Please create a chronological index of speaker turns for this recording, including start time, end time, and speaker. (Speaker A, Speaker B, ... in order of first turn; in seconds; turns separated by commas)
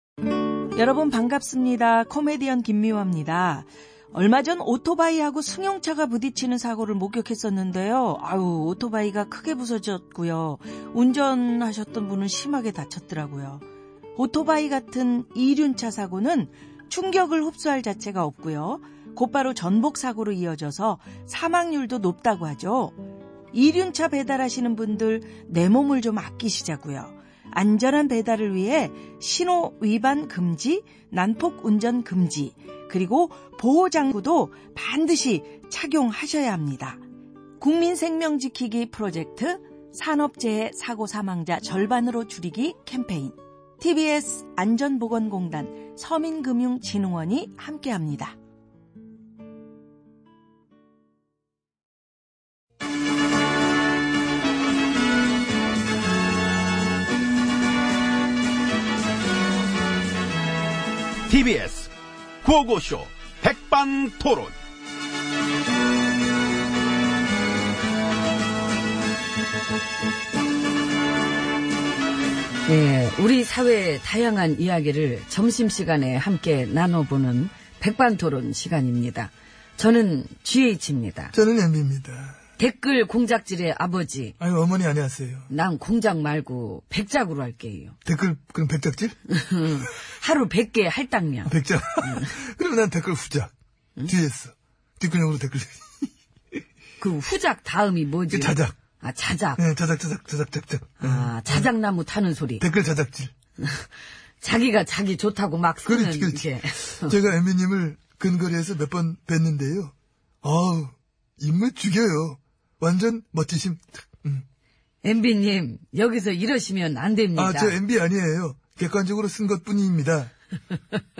Speaker A: 0.7-13.6, Speaker A: 14.2-23.0, Speaker A: 23.5-37.0, Speaker A: 37.6-48.4, Speaker B: 61.3-61.9, Speaker B: 62.4-64.5, Speaker C: 72.7-81.3, Speaker D: 81.3-82.4, Speaker C: 82.6-84.3, Speaker D: 84.4-85.5, Speaker C: 85.5-88.0, Speaker D: 88.0-89.2, Speaker C: 89.3-92.3, Speaker D: 91.4-93.5, Speaker D: 94.0-96.0, Speaker C: 97.0-99.6, Speaker D: 98.3-98.8, Speaker D: 99.6-101.7, Speaker C: 101.0-102.6, Speaker D: 102.6-103.3, Speaker C: 103.6-107.2, Speaker D: 105.8-114.4, Speaker C: 115.0-117.8, Speaker D: 117.3-120.3